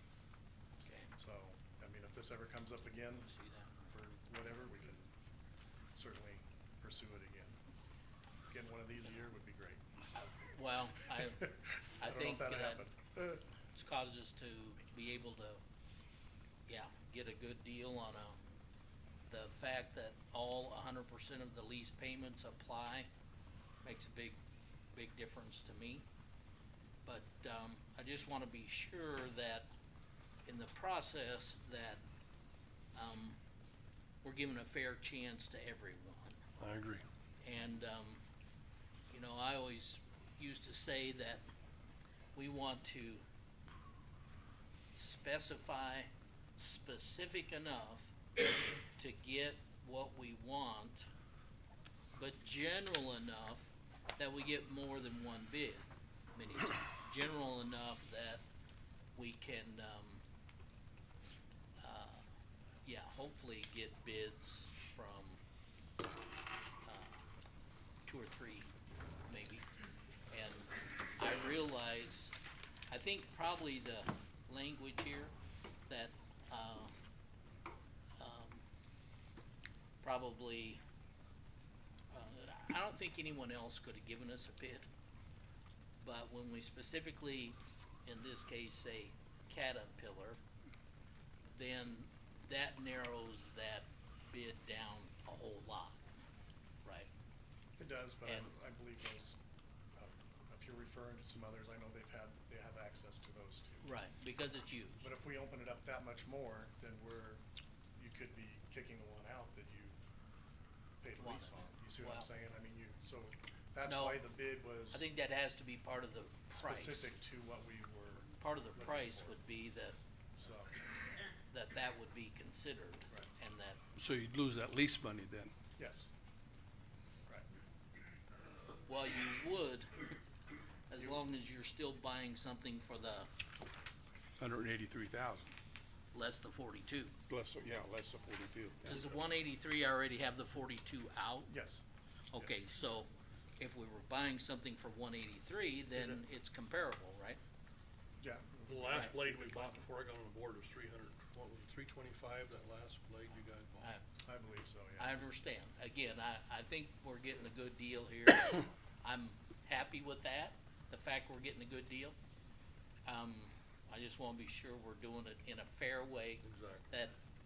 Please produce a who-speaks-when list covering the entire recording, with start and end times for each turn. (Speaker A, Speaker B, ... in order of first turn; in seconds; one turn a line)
Speaker A: 0.8-1.1
Speaker B: 1.1-3.3
Speaker A: 3.3-3.8
Speaker B: 3.8-5.1
Speaker B: 5.9-7.6
Speaker B: 8.5-9.8
Speaker A: 10.2-12.8
Speaker B: 11.4-13.4
Speaker A: 13.7-15.6
Speaker A: 16.7-18.4
Speaker A: 19.3-23.1
Speaker A: 23.8-24.4
Speaker A: 24.9-26.0
Speaker A: 27.0-29.7
Speaker A: 30.4-32.0
Speaker A: 32.9-33.4
Speaker A: 34.2-36.4
Speaker C: 36.6-37.0
Speaker A: 37.4-38.2
Speaker A: 39.1-41.4
Speaker A: 42.3-43.2
Speaker A: 44.9-51.1
Speaker A: 52.1-58.4
Speaker A: 59.1-60.2
Speaker A: 61.8-62.2
Speaker A: 62.8-65.4
Speaker A: 66.8-67.2
Speaker A: 68.0-68.7
Speaker A: 69.2-69.7
Speaker A: 70.3-72.4
Speaker A: 72.9-75.3
Speaker A: 75.9-76.9
Speaker A: 78.2-78.6
Speaker A: 80.0-80.8
Speaker A: 82.1-84.8
Speaker A: 86.0-90.4
Speaker A: 91.5-96.0
Speaker B: 97.8-99.4
Speaker B: 100.0-103.9
Speaker A: 103.8-105.1
Speaker B: 105.0-107.4
Speaker B: 108.0-110.0
Speaker B: 111.0-115.0
Speaker A: 111.2-112.3
Speaker A: 113.8-114.2
Speaker A: 114.9-117.1
Speaker B: 116.5-119.4
Speaker A: 118.4-120.0
Speaker B: 120.4-120.8
Speaker A: 121.5-123.8
Speaker D: 124.0-125.5
Speaker B: 125.8-126.1
Speaker A: 128.9-129.9
Speaker A: 130.9-133.3
Speaker D: 134.4-135.5
Speaker A: 136.1-137.1
Speaker D: 137.3-139.1
Speaker A: 138.8-141.5
Speaker B: 141.5-141.8
Speaker A: 142.3-147.4
Speaker B: 142.4-142.7
Speaker C: 145.9-146.2
Speaker B: 148.2-149.8
Speaker C: 148.6-153.9
Speaker B: 154.2-155.2
Speaker A: 155.0-162.1
Speaker A: 163.1-167.1
Speaker C: 166.4-166.8